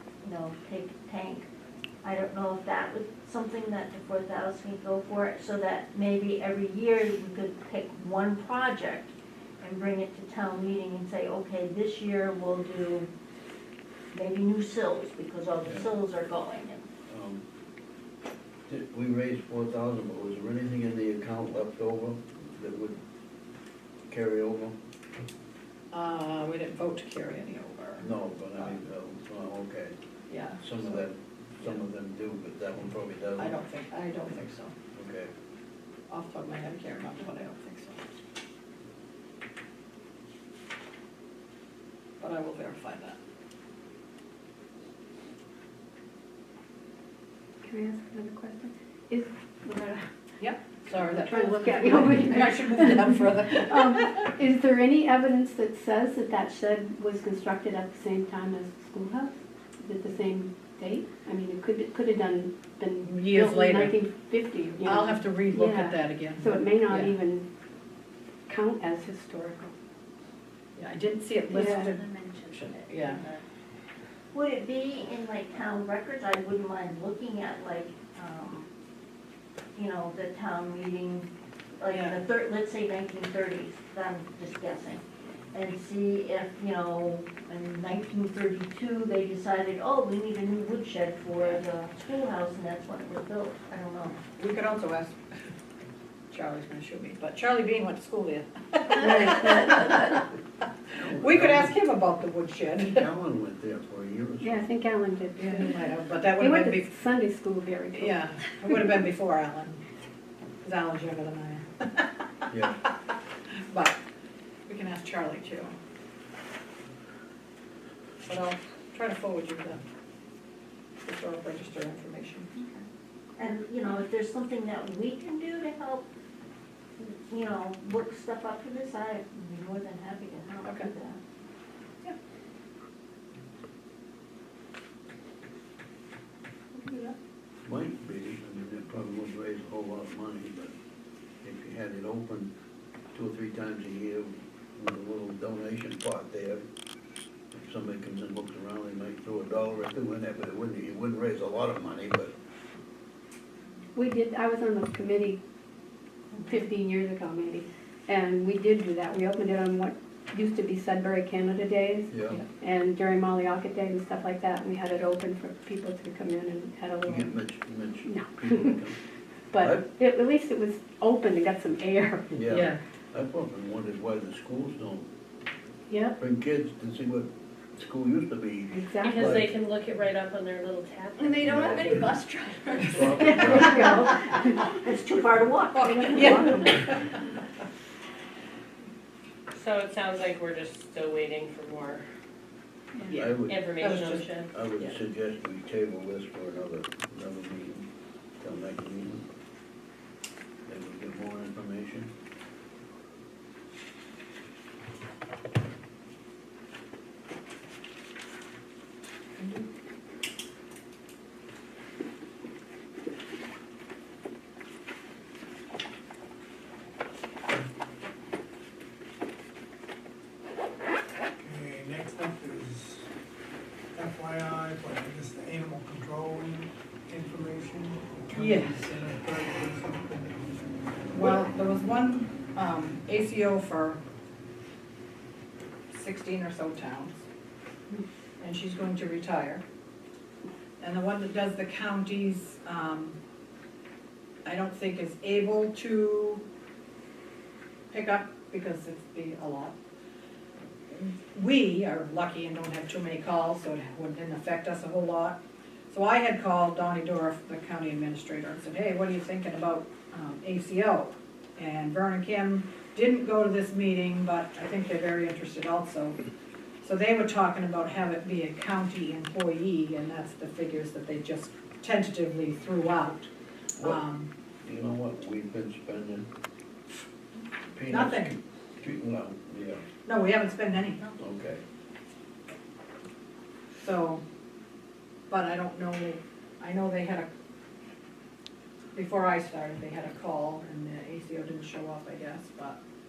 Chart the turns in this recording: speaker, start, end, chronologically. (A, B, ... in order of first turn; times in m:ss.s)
0:00.2-0:01.5 A
0:02.0-0:13.1 A
0:14.1-0:16.8 A
0:17.1-0:17.4 B
0:18.7-0:23.0 B
0:24.1-0:24.8 B
0:25.9-0:28.7 C
0:28.0-0:30.0 B
0:30.3-0:31.0 C
0:30.6-0:33.6 B
0:33.4-0:34.7 C
0:34.9-0:35.3 B
0:36.1-0:38.0 C
0:42.2-0:43.2 C
0:47.6-0:50.1 D
0:50.4-0:54.3 C
0:51.0-1:07.5 D
1:03.0-1:04.0 C
1:04.8-1:07.1 C
1:08.5-1:09.7 D
1:10.8-1:13.2 C
1:11.5-1:11.9 D
1:11.6-1:13.4 A
1:14.3-1:18.7 A
1:19.8-1:25.0 A
1:21.9-1:22.2 C
1:25.5-1:34.2 A
1:34.2-1:35.2 C
1:36.3-1:40.2 C
1:38.9-1:40.1 D
1:41.0-1:41.7 B
1:41.0-1:43.0 C
1:42.8-1:44.6 B
1:44.4-1:48.7 D
1:45.4-1:47.0 C
1:47.9-1:49.8 C
1:50.6-1:52.1 C
1:52.5-1:52.8 B
1:53.7-1:54.0 C
1:54.7-1:55.8 C
1:58.2-1:59.8 C
2:01.0-2:02.5 C
2:03.4-2:06.1 A
2:07.0-2:11.2 A
2:10.6-2:10.9 C
2:16.7-2:17.2 C
2:17.6-2:20.7 B
2:21.4-2:22.5 B
2:23.1-2:26.6 B
2:27.5-2:32.3 B
2:33.9-2:35.4 D
2:36.4-2:47.4 D
2:42.1-2:42.4 B
2:47.0-2:49.0 B
2:48.1-2:48.8 D
2:49.5-2:52.5 D
2:49.6-2:49.9 B
2:52.3-2:55.1 B
2:55.9-2:56.2 D
2:56.2-2:59.6 B
2:58.7-2:59.3 D
2:59.0-3:03.6 E
3:01.4-3:02.0 B
3:02.9-3:03.9 B
3:03.1-3:04.5 D
3:03.5-3:06.8 A
3:05.8-3:06.7 D
3:06.1-3:07.1 C
3:09.5-3:12.0 E
3:13.0-3:14.3 C
3:13.1-3:13.7 B
3:13.4-3:15.0 E
3:14.5-3:17.9 B
3:18.4-3:19.2 B
3:20.6-3:22.1 B
3:29.4-3:29.7 C
3:41.4-3:43.1 F
3:43.9-3:51.4 F
3:48.3-3:49.0 C
3:51.1-3:54.0 C
3:55.9-3:57.2 C
3:58.4-3:59.6 C
4:00.8-4:03.2 C
4:04.4-4:06.4 C
4:07.9-4:09.8 C
4:10.9-4:26.2 C
4:26.8-4:34.3 C
4:34.6-4:36.3 B
4:37.7-4:39.8 B
4:37.9-4:38.4 C
4:40.0-4:41.1 C
4:41.2-4:41.6 B
4:43.8-4:44.2 C
4:45.3-4:47.3 C
4:48.9-4:52.8 C